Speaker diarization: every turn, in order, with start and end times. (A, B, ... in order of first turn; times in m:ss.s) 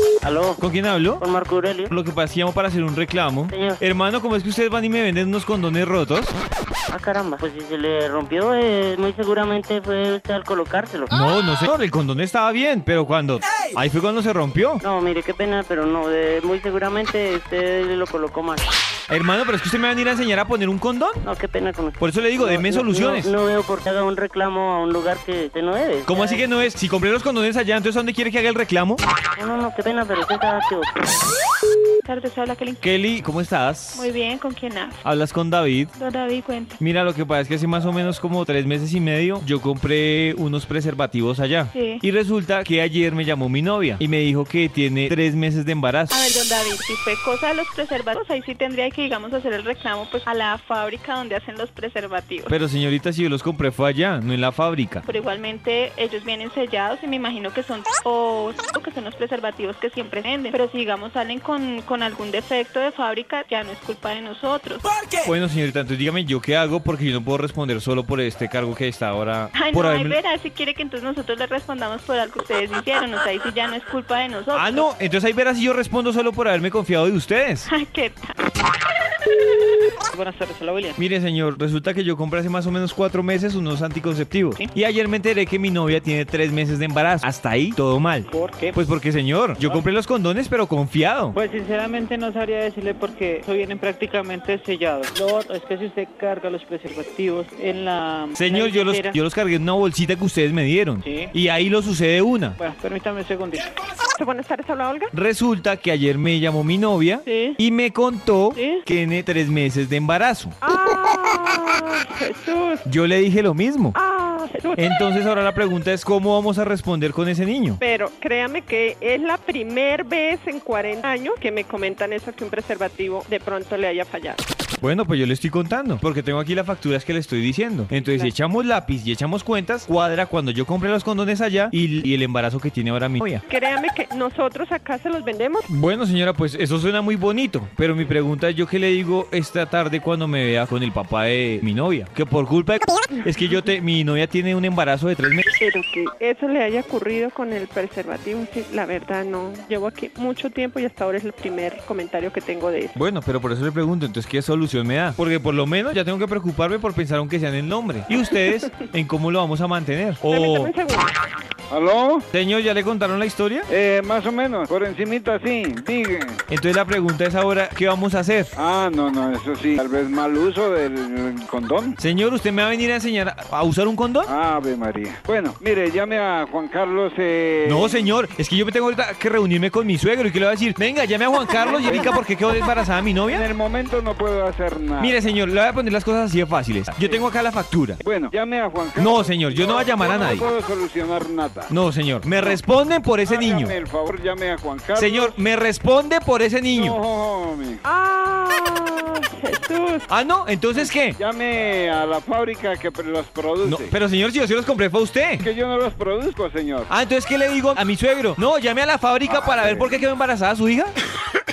0:00.2-0:00.6 A
0:00.6-0:01.2 B
0:01.2-0:01.9 A
0:01.9-0:06.3 B
0:03.5-0:03.8 A
0:06.9-0:11.1 A
0:11.1-0:14.8 B
0:14.8-0:18.6 A
0:19.1-0:21.2 B
0:21.2-0:26.4 A
0:22.0-0:23.3 B
0:26.1-0:29.0 B
0:29.4-0:30.9 A
0:32.0-0:32.8 C
0:32.8-0:34.1 B
0:33.9-0:35.0 C
0:35.0-0:35.9 B
0:36.0-0:36.8 C
0:36.8-0:46.2 B
0:41.7-0:42.0 C
0:46.1-0:52.6 C
0:52.5-0:55.0 B
0:55.0-1:04.9 C
1:05.2-1:10.2 B
1:09.5-1:14.8 C
1:14.5-1:17.7 B
1:17.7-1:18.3 C
1:20.1-1:21.0 D
1:21.0-1:31.4 B
1:28.3-1:28.9 D
1:29.6-1:29.8 D
1:31.3-1:39.2 D
1:38.4-1:42.6 B
1:41.0-1:41.3 D
1:42.6-1:43.7 D
1:44.2-1:45.1 E
1:45.1-1:50.6 B
1:48.5-1:48.8 D
1:50.6-1:52.8 E
1:52.8-1:54.0 B
1:53.9-1:54.8 E
1:54.8-1:57.8 B
1:57.8-2:04.4 E
2:04.8-2:13.4 B
2:08.0-2:08.3 E
2:13.5-2:15.7 E
2:15.7-2:25.4 B
2:25.6-2:33.0 E
2:33.0-2:40.7 B
2:40.3-2:41.1 E
2:41.7-2:42.2 F
2:42.3-2:43.7 B
2:43.7-2:46.4 F
2:46.5-2:48.5 B
2:48.6-2:52.0 F
2:52.0-2:54.3 B
2:54.2-2:58.0 F
2:57.6-3:03.4 B
3:01.6-3:02.1 F
3:03.3-3:05.2 F
3:05.0-3:08.0 B
3:07.0-3:07.2 F
3:08.0-3:11.7 F
3:09.0-3:10.4 B
3:11.7-3:13.8 B
3:13.2-3:15.4 F
3:14.9-3:17.0 B
3:16.7-3:17.8 F
3:17.8-3:20.1 E
3:20.1-3:21.2 B
3:20.8-3:23.9 F
3:23.6-3:25.4 B
3:25.4-3:26.9 F
3:26.9-3:30.9 B
3:29.2-3:30.0 F